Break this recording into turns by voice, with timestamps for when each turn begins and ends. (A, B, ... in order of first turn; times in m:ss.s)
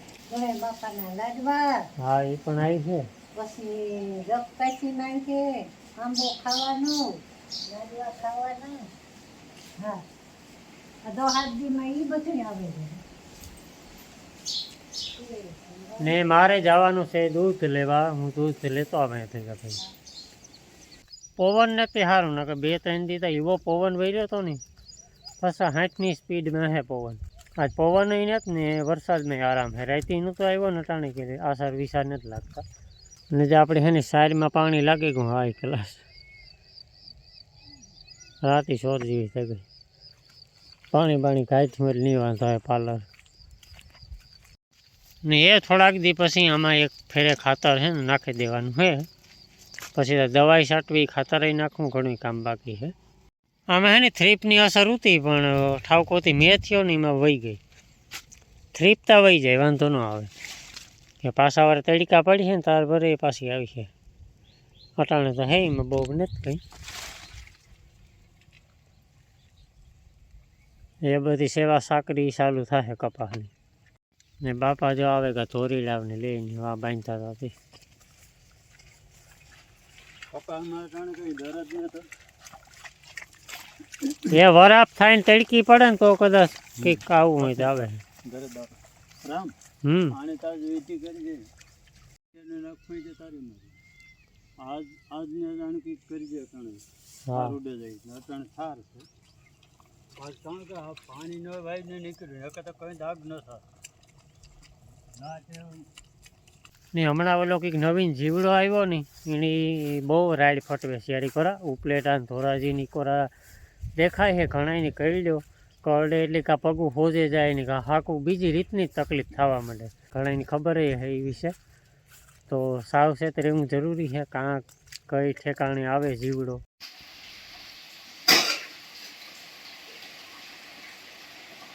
0:00.3-0:01.8 A
0:02.0-0:03.0 B
0:03.3-0:07.0 A
0:07.7-0:08.9 A
0:11.0-0:13.0 A
0:15.1-0:16.2 A
0:16.0-0:19.8 B
0:21.4-0:24.6 B
0:25.4-0:32.6 B
0:33.3-0:36.0 B
0:38.4-0:39.6 B
0:40.9-0:43.0 B
0:45.2-0:49.0 B
0:49.9-0:52.9 B
0:53.7-0:57.6 B
0:58.7-1:00.3 B
1:01.2-1:03.9 B
1:05.0-1:06.6 B
1:11.0-1:13.5 B
1:14.4-1:17.5 B
1:20.3-1:22.1 C
1:24.2-1:28.0 B
1:26.8-1:27.7 C
1:28.2-1:29.5 C
1:29.8-1:30.2 B
1:30.1-1:31.5 C
1:32.3-1:33.8 C
1:34.6-1:39.1 C
1:37.3-1:37.6 B
1:40.2-1:43.6 C
1:45.2-1:45.8 C
1:46.9-1:53.3 B
1:54.0-2:01.5 B
2:02.5-2:06.6 B